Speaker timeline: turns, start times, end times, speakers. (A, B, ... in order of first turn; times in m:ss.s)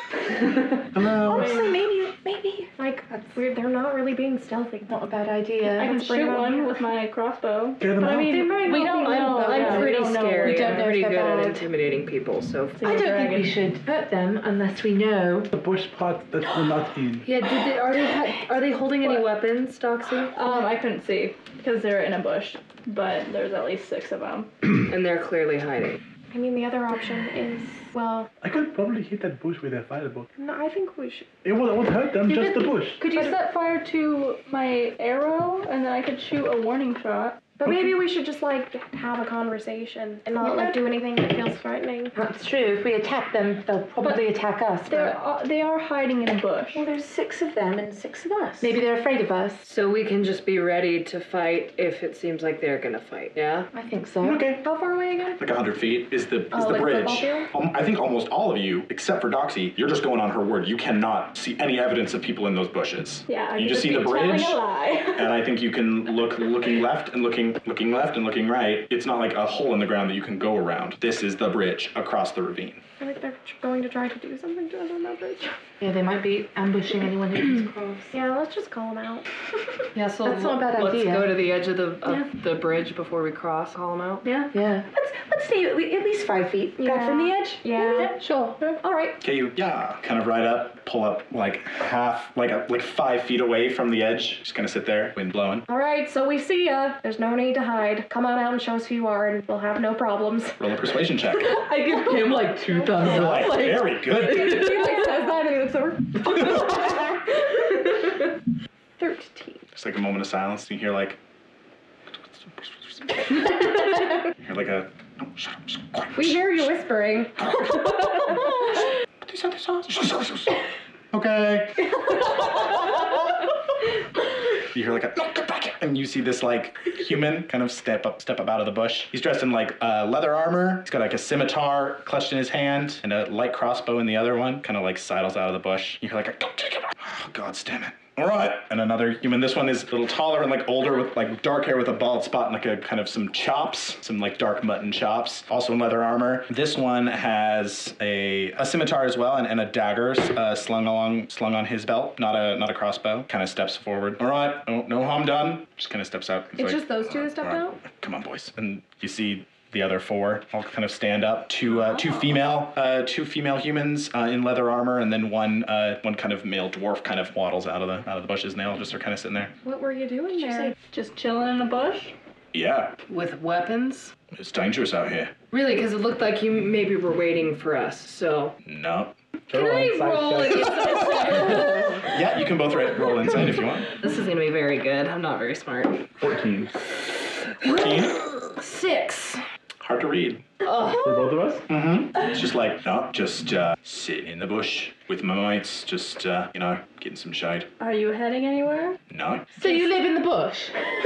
0:00.9-0:01.5 A
0:01.2-0:02.7 B
0:01.3-0:01.7 C
0:02.8-0:05.0 D
0:04.9-0:05.9 E
0:05.6-0:10.9 C
0:05.8-0:06.8 D
0:07.8-0:08.6 F
0:08.0-0:09.7 D
0:08.7-0:12.9 G
0:08.7-0:11.6 E
0:12.8-0:13.6 C
0:12.8-0:15.5 E
0:15.5-0:17.3 F
0:17.2-0:20.3 G
0:20.3-0:24.5 C
0:24.8-0:26.0 G
0:26.3-0:28.3 D
0:28.4-0:30.3 F
0:30.4-0:31.2 D
0:31.4-0:33.0 F
0:32.2-0:37.7 C
0:33.0-0:33.4 D
0:37.6-0:42.1 D
0:40.4-0:40.8 C
0:42.1-0:45.1 E
0:44.9-0:46.8 C
0:46.7-0:48.8 B
0:48.6-0:49.6 E
0:49.6-0:53.7 G
0:53.7-0:54.5 E
0:54.2-0:54.6 A
0:54.6-0:55.4 D
0:55.4-1:04.6 A
0:56.5-0:57.5 D
1:03.3-1:05.4 C
1:05.1-1:12.8 A
1:13.0-1:15.5 D
1:15.8-1:18.1 E
1:18.1-1:19.2 D
1:19.9-1:24.2 G
1:20.2-1:21.3 E
1:24.2-1:24.5 C
1:24.5-1:24.9 E
1:24.9-1:28.0 B
1:26.8-1:28.2 D
1:28.0-1:28.8 C
1:28.2-1:28.6 E
1:28.8-1:29.2 D
1:29.2-1:35.6 A
1:35.7-1:40.6 D
1:40.6-1:41.6 A
1:41.4-1:43.9 E
1:43.0-1:44.7 A
1:44.2-1:46.6 D
1:49.0-1:49.6 D
1:49.7-1:51.2 A
1:54.4-1:56.7 A
1:56.1-1:57.4 D
1:57.4-2:02.6 A
2:04.7-2:49.5 A
2:36.6-2:37.8 D
2:41.8-2:42.2 C
2:49.6-2:50.7 D
2:50.4-2:52.1 C
2:52.5-2:52.9 A
2:53.1-2:54.1 G
2:54.3-2:55.3 A
2:55.5-2:58.5 G
2:58.6-2:59.1 A
2:59.5-3:00.7 F
2:59.5-3:02.1 G
3:01.0-3:01.9 C
3:02.0-3:03.9 A
3:04.0-3:06.0 G
3:06.2-3:06.8 F
3:07.6-3:09.4 G
3:07.6-3:08.2 A
3:09.8-3:10.4 A
3:10.6-3:11.0 G
3:10.9-3:11.6 F
3:11.7-3:17.7 A
3:17.8-3:19.0 C
3:19.1-3:19.5 A
3:19.6-3:20.7 E